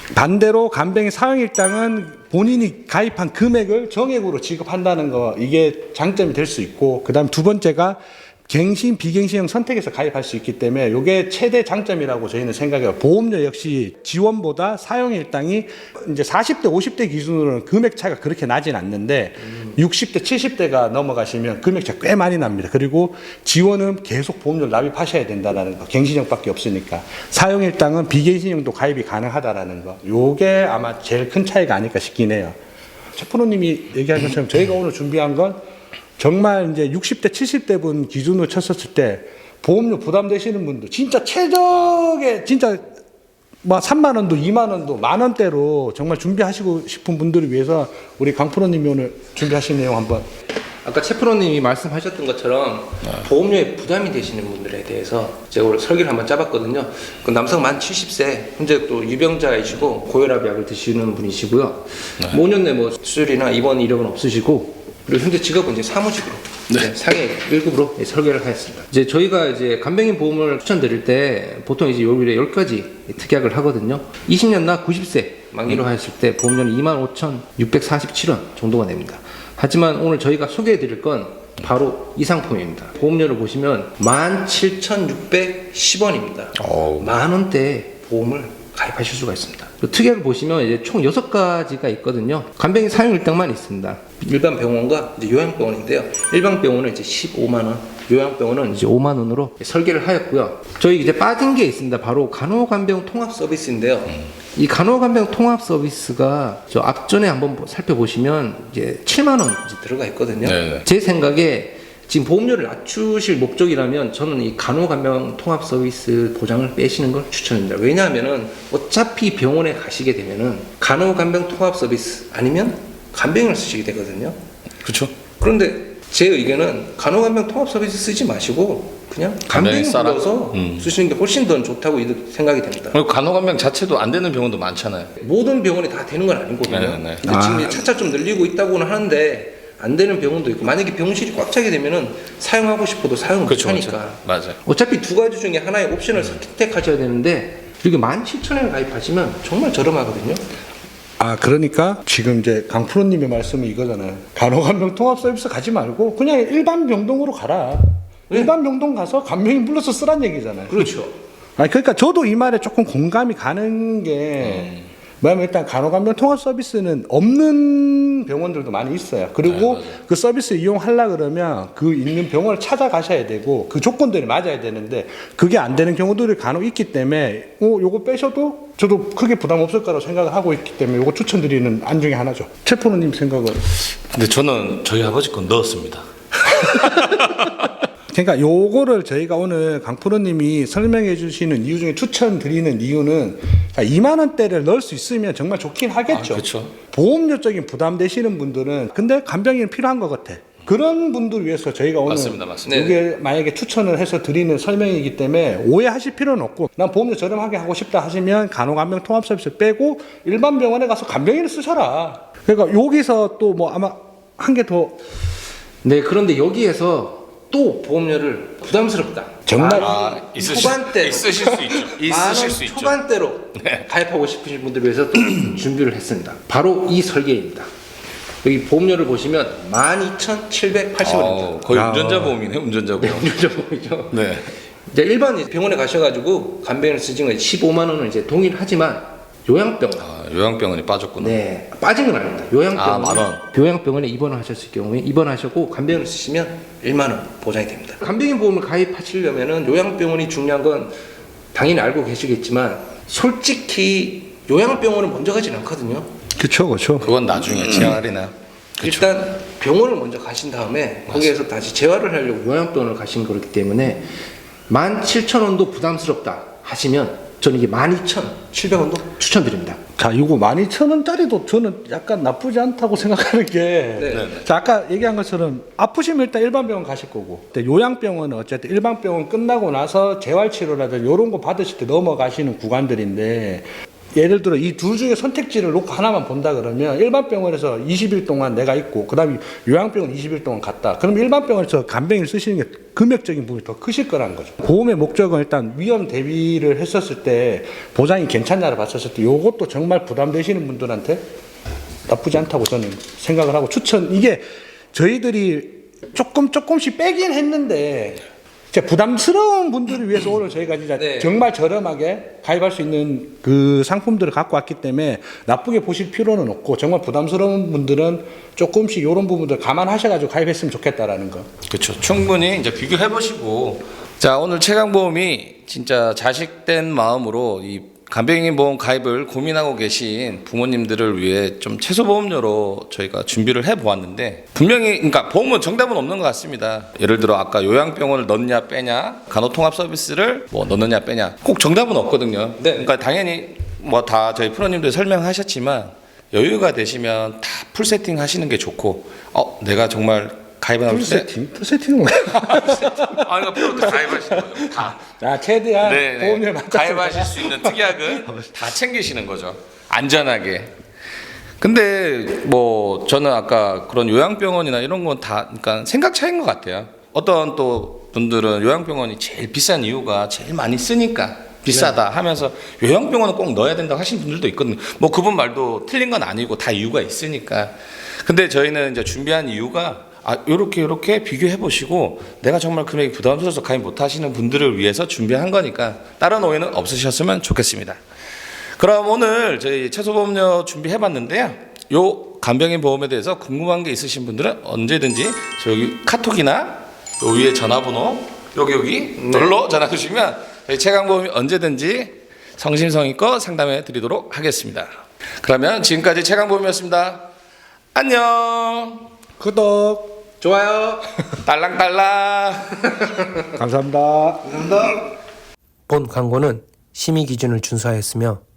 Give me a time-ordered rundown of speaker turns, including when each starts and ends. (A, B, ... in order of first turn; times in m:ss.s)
0:00.1-0:32.6 A
0:33.1-0:35.6 A
0:36.2-0:42.9 A
0:43.6-0:50.2 A
0:50.8-2:04.4 B
1:26.6-1:27.1 C
1:50.4-1:50.8 C
2:04.8-2:05.1 C
2:05.3-2:13.0 B
2:09.5-2:10.8 C
2:12.9-2:15.1 C
2:15.2-2:30.4 B
2:16.6-2:17.3 C
2:17.2-2:17.8 A
2:23.5-2:24.6 C
2:31.2-2:40.9 A
2:40.7-2:41.1 B
2:41.6-3:03.6 A
2:49.4-2:49.9 C
3:04.0-3:07.7 C
3:08.1-3:35.0 A
3:16.1-3:16.7 C
3:22.0-3:22.7 C
3:22.7-3:23.0 B
3:35.8-3:47.7 B
3:39.4-3:39.9 A
3:39.8-3:43.0 C
3:43.6-3:43.8 C
3:48.4-3:51.5 B
3:51.0-3:53.4 C
3:51.7-3:52.4 A
3:53.0-3:54.2 B
3:54.1-3:54.5 C
3:54.9-4:00.1 B
4:00.0-4:01.4 C
4:01.2-4:10.9 B
4:02.7-4:03.4 C
4:11.5-4:16.1 B
4:16.4-4:17.9 A
4:17.0-4:19.1 C
4:18.8-4:24.2 B
4:24.7-4:29.8 B
4:30.0-5:01.2 A
4:34.0-4:34.3 B
4:34.1-4:34.4 C
5:02.1-5:21.5 A
5:11.0-5:11.4 B
5:21.7-5:51.3 C
5:42.6-5:42.9 B
5:50.8-5:58.3 A
5:52.5-5:55.1 C
5:55.8-6:00.7 C
6:01.6-6:28.0 C
6:28.8-6:44.9 C
6:39.2-6:39.5 B
6:45.4-6:47.3 C
6:47.9-6:49.1 C
6:49.4-6:50.2 A
6:50.4-6:51.1 B
6:51.4-6:53.0 C
6:53.6-6:54.6 A
6:54.5-6:55.0 B
6:55.9-6:58.4 D